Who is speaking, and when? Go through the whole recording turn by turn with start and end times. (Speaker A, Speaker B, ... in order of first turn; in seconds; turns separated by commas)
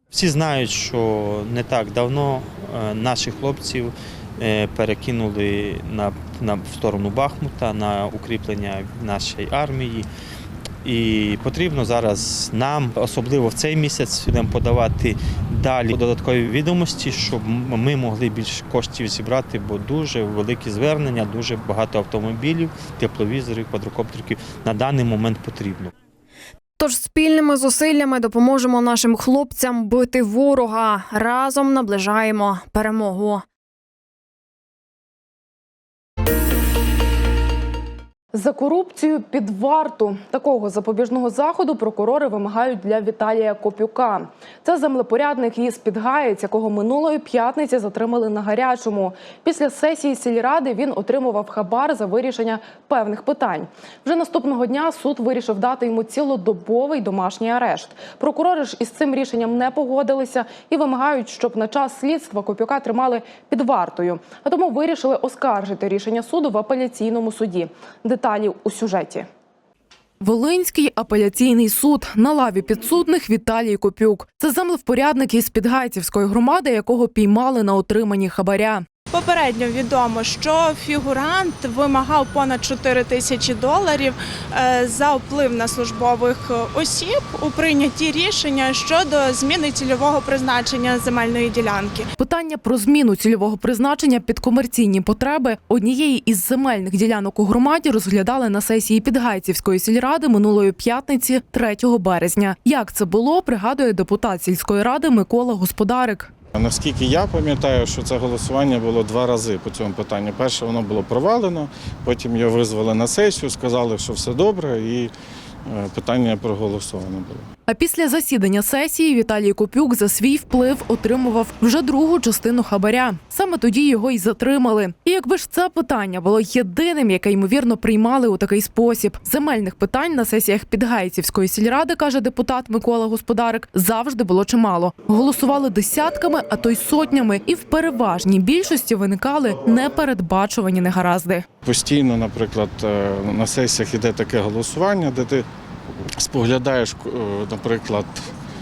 Speaker A: 0.1-10.1, Speaker A: 10.8-25.9, Speaker B: 26.8-33.4, Speaker C: 38.3-69.3, Speaker C: 70.2-78.9, Speaker D: 79.1-92.1, Speaker C: 92.2-106.3, Speaker E: 106.5-115.1, Speaker E: 115.7-117.5, Speaker C: 117.7-141.4, Speaker E: 141.6-145.5, Speaker E: 146.2-148.3